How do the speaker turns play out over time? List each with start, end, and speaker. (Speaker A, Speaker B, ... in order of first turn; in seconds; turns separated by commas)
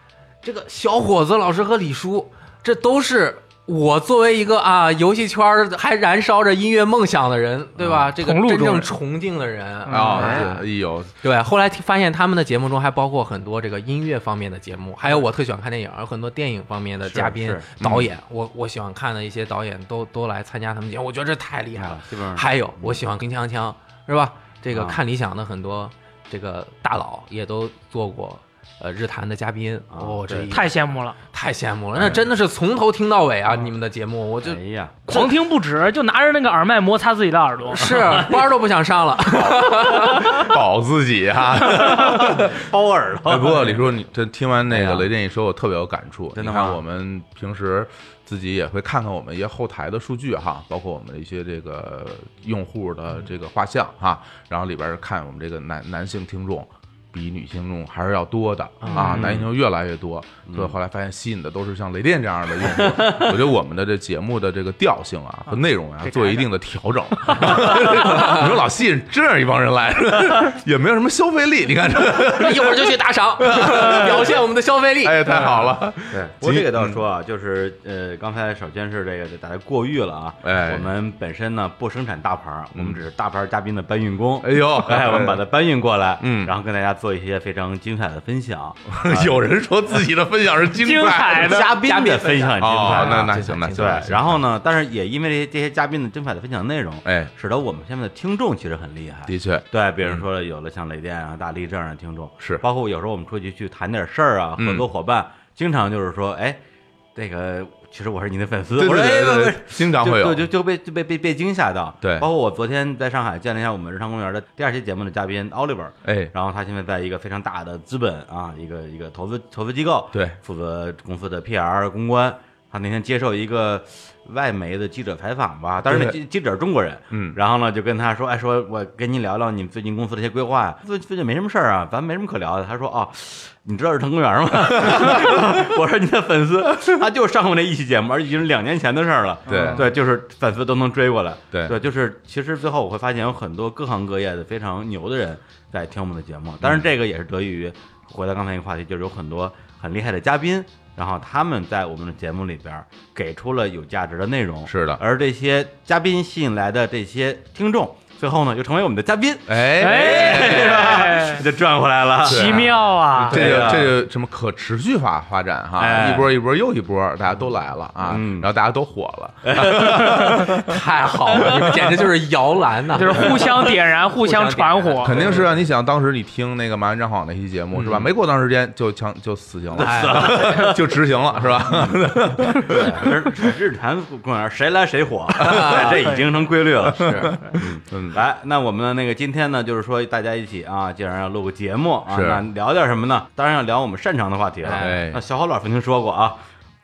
Speaker A: 0.4-10.7, Speaker B: 7.8-8.1, Speaker C: 8.2-8.9, Speaker C: 9.9-10.2, Speaker D: 9.9-11.1, Speaker B: 9.9-10.5, Speaker A: 11.2-30.7, Speaker B: 17.0-18.0, Speaker D: 17.8-18.1, Speaker B: 21.8-23.0, Speaker B: 24.7-25.0, Speaker B: 29.9-30.5, Speaker C: 30.5-31.2, Speaker A: 31.3-34.6, Speaker B: 34.4-35.3, Speaker C: 35.1-38.3, Speaker A: 37.7-40.5, Speaker D: 39.3-42.7, Speaker B: 41.7-43.9, Speaker D: 43.2-74.4, Speaker B: 44.7-45.1, Speaker B: 46.3-46.8, Speaker A: 58.8-59.2, Speaker B: 58.9-59.5, Speaker B: 60.5-60.7, Speaker B: 62.6-63.3, Speaker C: 66.0-66.5, Speaker C: 67.3-68.3, Speaker A: 72.1-75.4, Speaker D: 75.0-77.0, Speaker C: 75.3-75.7, Speaker B: 76.1-89.5, Speaker D: 80.4-80.9, Speaker D: 82.7-83.0, Speaker D: 84.4-85.4, Speaker D: 86.2-86.5, Speaker D: 88.9-91.6, Speaker C: 90.7-91.8, Speaker B: 91.2-106.6, Speaker A: 91.5-94.3, Speaker D: 92.6-94.3, Speaker D: 97.0-97.3, Speaker D: 99.3-100.2, Speaker D: 104.6-104.9, Speaker B: 107.1-163.9, Speaker D: 108.8-110.5, Speaker D: 112.0-112.3, Speaker D: 116.0-116.3, Speaker D: 125.8-126.2, Speaker D: 127.1-127.4, Speaker D: 134.7-135.7, Speaker C: 139.5-139.9, Speaker D: 139.5-139.9, Speaker D: 141.5-141.8, Speaker D: 146.6-146.9, Speaker D: 154.7-155.0, Speaker D: 159.5-161.1, Speaker C: 159.8-161.4, Speaker C: 162.2-163.7, Speaker D: 162.2-170.8, Speaker B: 165.8-166.3, Speaker B: 168.0-168.5, Speaker B: 169.4-170.4, Speaker A: 170.6-175.6, Speaker D: 171.4-171.9, Speaker C: 172.9-175.3, Speaker D: 175.0-183.2, Speaker A: 177.8-178.1, Speaker B: 179.7-180.8, Speaker A: 179.8-180.7, Speaker A: 181.3-181.7, Speaker B: 181.6-196.4, Speaker A: 185.4-186.1, Speaker D: 185.4-185.8, Speaker C: 185.8-186.5, Speaker D: 186.8-188.2, Speaker A: 186.9-187.4, Speaker D: 192.1-192.4, Speaker A: 194.6-195.0, Speaker D: 194.6-195.2